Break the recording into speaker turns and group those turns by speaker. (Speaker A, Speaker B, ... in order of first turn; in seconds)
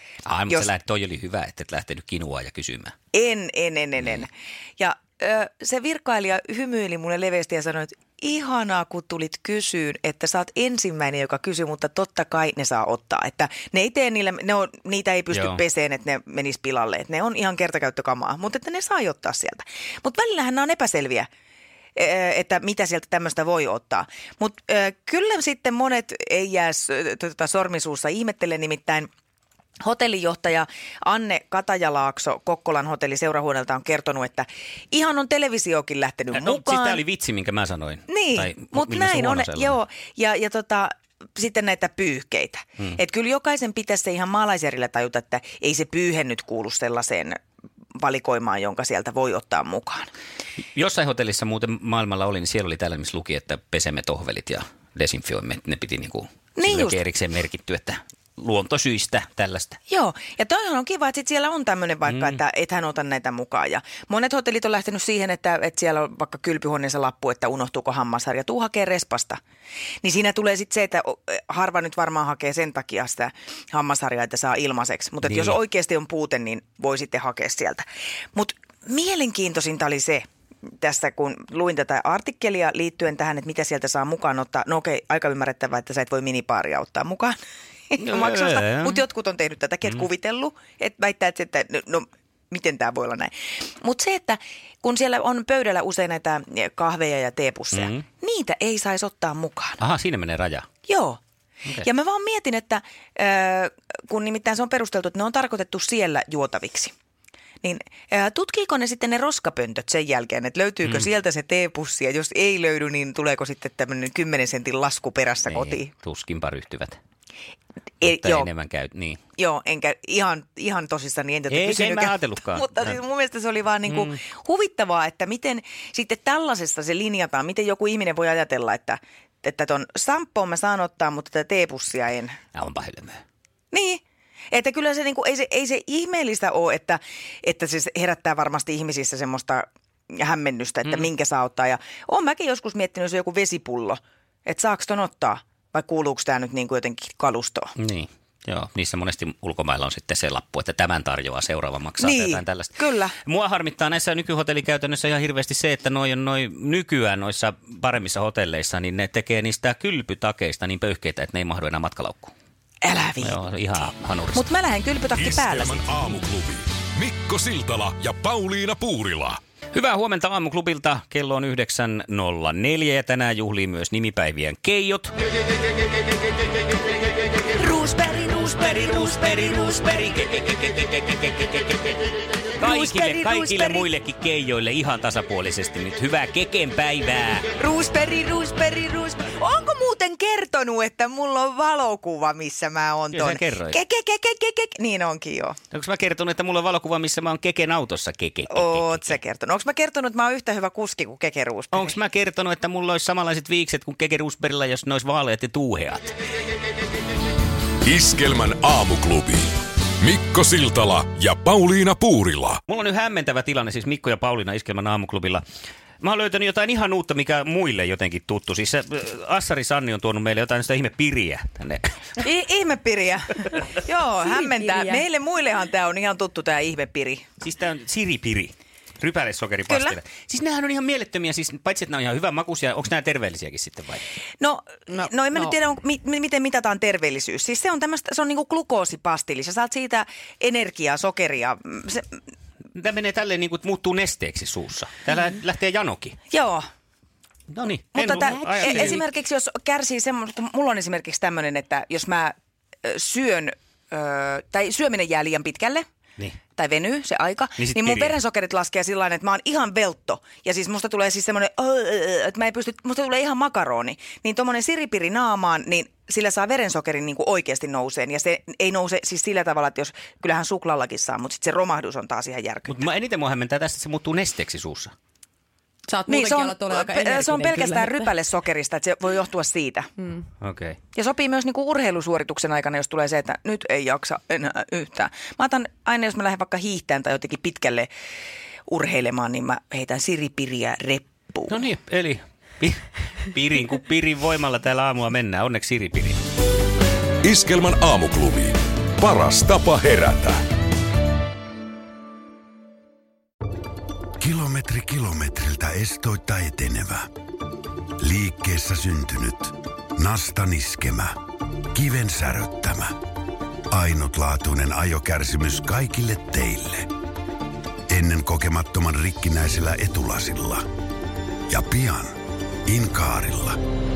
Speaker A: 0.3-3.0, 15.3-15.6, 36.3-39.8, 50.8-59.8, 62.1-62.4, 75.2-75.6, 88.0-89.0, 97.7-98.0, 99.8-100.7, 115.5-117.0, 118.0-119.2, 121.5-123.0, 123.9-124.2, 132.5-133.2, 147.8-162.3, 163.2-164.4, 169.7-175.1, 178.3-182.0, 182.6-187.5, 193.1-193.8, 195.7-199.2, 201.7-206.2, 212.7-215.4, 216.0-222.0, 227.4-234.0, 242.8-246.2, 247.5-249.0, 257.6-258.2, 272.7-274.9, 280.4-280.8, 291.5-296.2
Speaker B: 3.1-21.3, 21.9-29.1, 29.8-37.0, 38.1-47.4, 48.0-50.1, 56.6-57.0, 59.9-69.4, 70.0-87.4, 87.9-99.8, 100.9-101.2, 101.8-107.0, 107.6-115.9, 118.0-118.5, 119.4-132.4, 133.7-147.7, 152.0-153.2, 162.8-163.4, 164.3-166.2, 177.6-179.7, 182.6-183.9, 187.6-195.6, 198.5-202.0, 222.2-227.3, 229.7-230.0, 234.4-242.2, 246.3-246.7, 247.9-255.9, 256.6-272.8, 276.1-279.9, 280.9-287.9, 288.7-291.6
Speaker C: 165.2-169.4, 207.8-209.5, 210.0-212.6, 297.2-300.4
Speaker D: 224.2-225.0, 248.1-249.0, 275.9-278.1
Speaker E: 304.2-307.1, 308.0-313.0, 313.7-316.9, 317.9-320.6, 321.5-322.1, 322.7-323.6